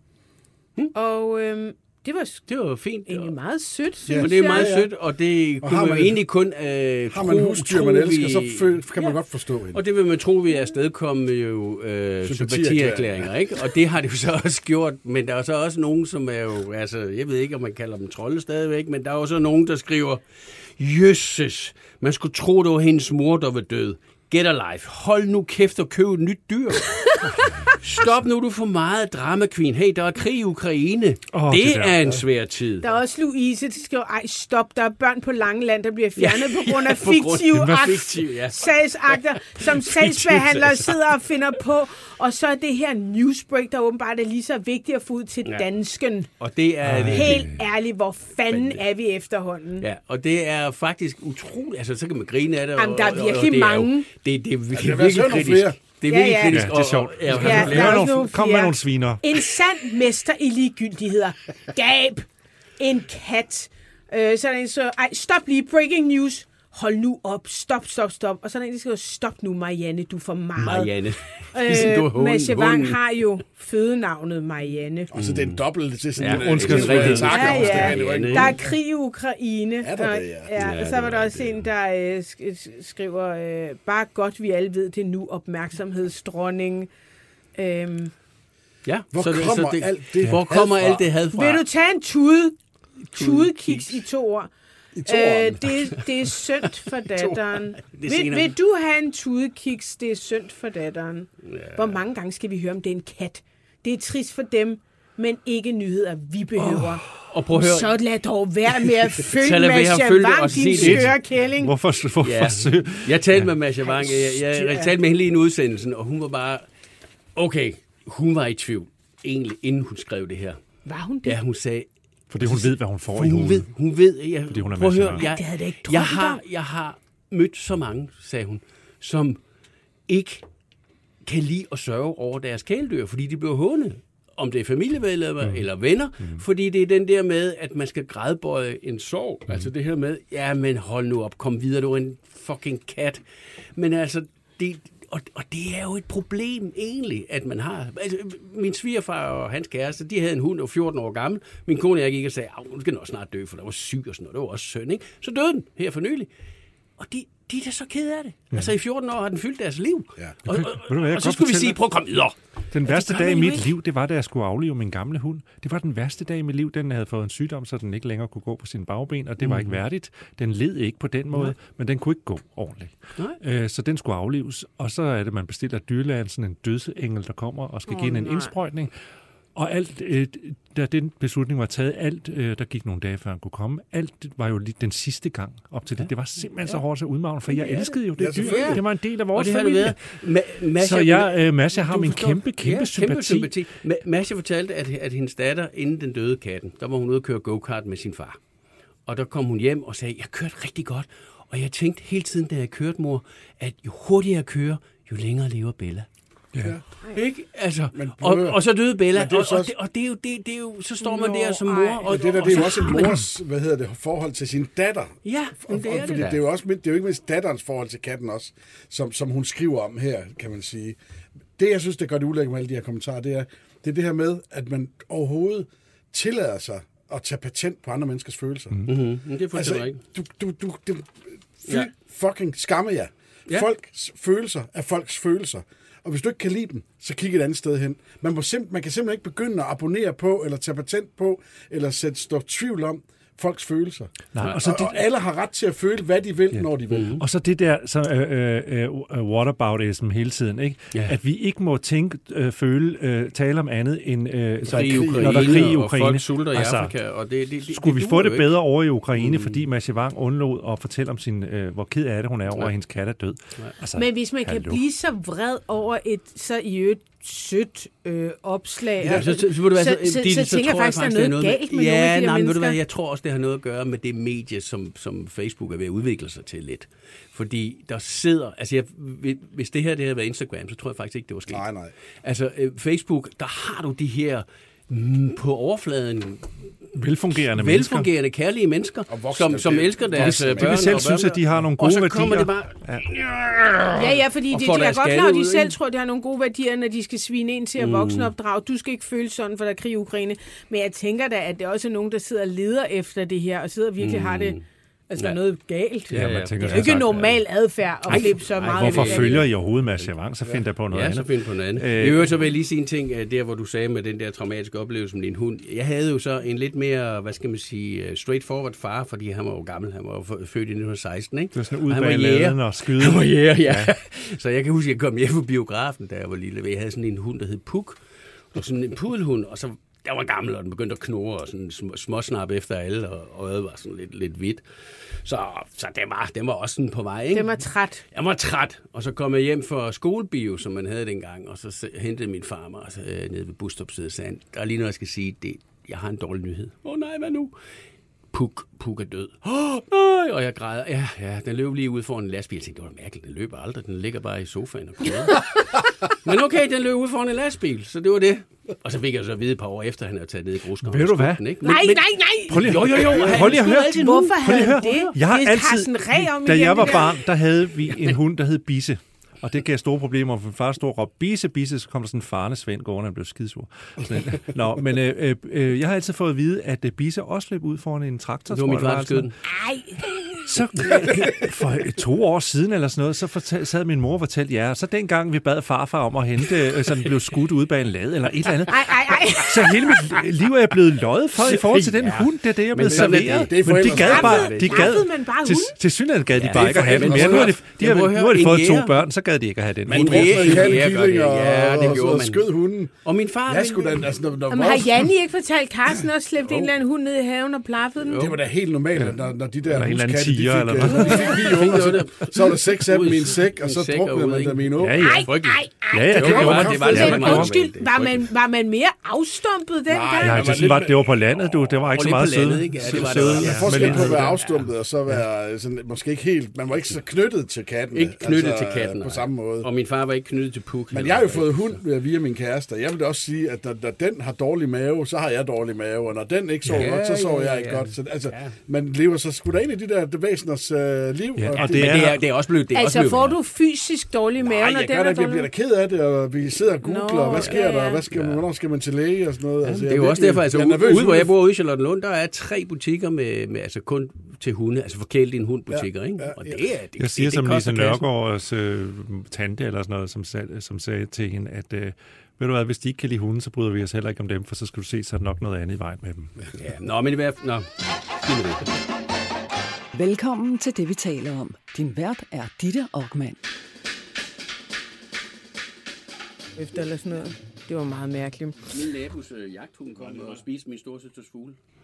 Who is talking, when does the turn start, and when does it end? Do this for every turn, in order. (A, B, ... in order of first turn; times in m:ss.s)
0:00.9-0:02.5 A
0:02.5-0:03.4 B
0:03.0-0:04.7 A
0:04.1-0:04.9 C
0:04.1-0:09.2 B
0:05.6-0:06.2 C
0:07.1-0:09.8 C
0:09.7-0:27.1 B
0:12.2-0:13.4 C
0:27.4-0:28.2 D
0:27.8-0:32.9 B
0:31.3-0:32.2 D
0:32.8-0:46.3 A
0:36.2-0:40.9 B
0:37.6-0:38.1 D
0:46.4-0:47.5 B
0:46.8-0:47.6 D
0:47.0-0:49.9 A
0:48.5-0:48.8 B
0:49.8-0:58.1 B
0:52.8-0:54.1 A
0:54.7-0:55.8 C
0:56.1-0:56.7 A
0:56.5-0:59.2 D
0:57.3-1:02.3 A
1:02.8-1:15.1 A
1:10.6-1:13.0 B
1:15.1-1:15.6 B
1:15.1-1:18.6 C
1:16.2-1:18.7 B
1:16.2-1:18.0 D
1:17.3-1:26.9 A
1:19.8-1:20.6 C
1:20.6-1:21.6 B
1:27.6-1:28.1 A
1:28.8-1:31.6 B
1:29.1-1:31.1 C
1:31.3-1:34.5 A
1:33.1-1:34.0 B
1:35.0-1:35.7 C
1:35.1-1:51.7 A
1:37.2-1:38.5 B
1:41.4-1:42.0 B
1:46.6-1:46.9 D
1:47.3-1:48.0 B
1:49.2-1:51.2 B
1:50.8-1:53.5 D
1:52.2-1:56.7 B
1:53.8-1:54.9 A
1:57.4-2:00.6 B
2:00.9-2:01.4 A
2:01.2-2:01.9 B
2:02.3-2:03.7 D
2:02.4-2:09.4 B
2:04.5-2:05.3 D
2:05.2-2:06.4 A
2:10.1-2:10.5 B
2:11.2-2:23.2 B
2:15.4-2:15.7 D
2:16.2-2:16.4 D
2:23.8-2:36.3 B
2:37.0-2:43.7 B
2:40.5-2:41.8 D
2:42.7-2:59.0 D
2:49.4-2:49.8 B
2:57.9-2:58.5 A
2:59.6-3:13.6 D
3:07.5-3:08.8 B
3:08.2-3:08.8 C
3:09.3-3:18.4 B
3:19.1-3:26.1 B
3:27.1-3:33.2 B
3:27.9-3:29.7 C
3:31.0-3:33.0 A
3:32.1-3:41.0 C
3:35.2-3:36.4 B
3:41.6-3:48.9 C
3:48.9-3:50.0 B
3:49.5-4:07.2 C
4:04.3-4:05.0 D
4:06.9-4:07.2 B
4:07.2-4:17.0 D
4:14.7-4:18.5 B
4:14.7-4:15.8 C
4:17.7-4:24.8 D
4:19.2-4:19.6 B
4:24.0-4:32.8 A
4:29.0-4:29.3 C
4:29.0-4:41.7 B
4:41.5-4:41.9 C
4:42.2-4:46.7 B
4:46.9-4:48.1 D
4:47.5-4:55.8 B
4:49.1-4:51.1 C
4:50.1-4:53.1 D
4:54.0-5:04.6 A
4:57.8-4:58.3 B
5:04.0-5:04.6 B
5:05.1-5:09.4 A
5:06.1-5:07.4 B
5:06.1-5:07.4 D
5:08.1-5:10.1 B
5:08.1-5:12.5 D
5:10.9-5:47.6 B
5:21.6-5:23.9 D
5:37.3-5:38.0 A
5:48.3-5:55.7 B
5:56.2-6:05.1 B
6:00.8-6:01.5 D
6:01.6-6:07.2 A
6:02.5-6:19.3 D
6:18.5-6:19.4 B
6:19.5-6:20.5 A
6:20.5-6:40.8 D
6:28.7-6:29.7 A
6:31.4-6:35.0 B
6:32.9-6:34.5 C
6:34.0-6:35.8 A
6:36.4-6:39.0 B
6:36.5-6:37.6 C
6:39.9-6:42.5 B
6:39.9-6:45.1 C
6:43.0-6:44.1 B
6:44.5-6:48.3 A
6:46.5-6:46.7 B
6:48.1-6:48.4 B
6:48.2-6:55.1 C
6:49.0-6:51.6 D
6:50.8-6:58.3 B
6:54.8-6:57.5 D
6:55.0-7:00.8 A
6:56.4-6:57.1 C
6:59.9-7:01.7 C
7:00.2-7:04.4 D
7:01.9-7:04.7 B
7:02.8-7:09.7 C
7:07.9-7:11.8 B
7:10.9-7:22.2 C
7:16.7-7:18.6 B
7:21.4-7:22.2 D
7:21.6-7:23.4 B
7:22.7-7:25.5 A
7:24.4-7:31.3 C
7:26.8-7:28.0 A
7:29.6-7:38.0 B
7:35.7-7:36.6 C
7:37.0-7:46.4 D
7:46.5-7:48.8 B
7:49.9-7:53.4 E
7:56.6-7:58.6 A
7:58.7-8:01.6 B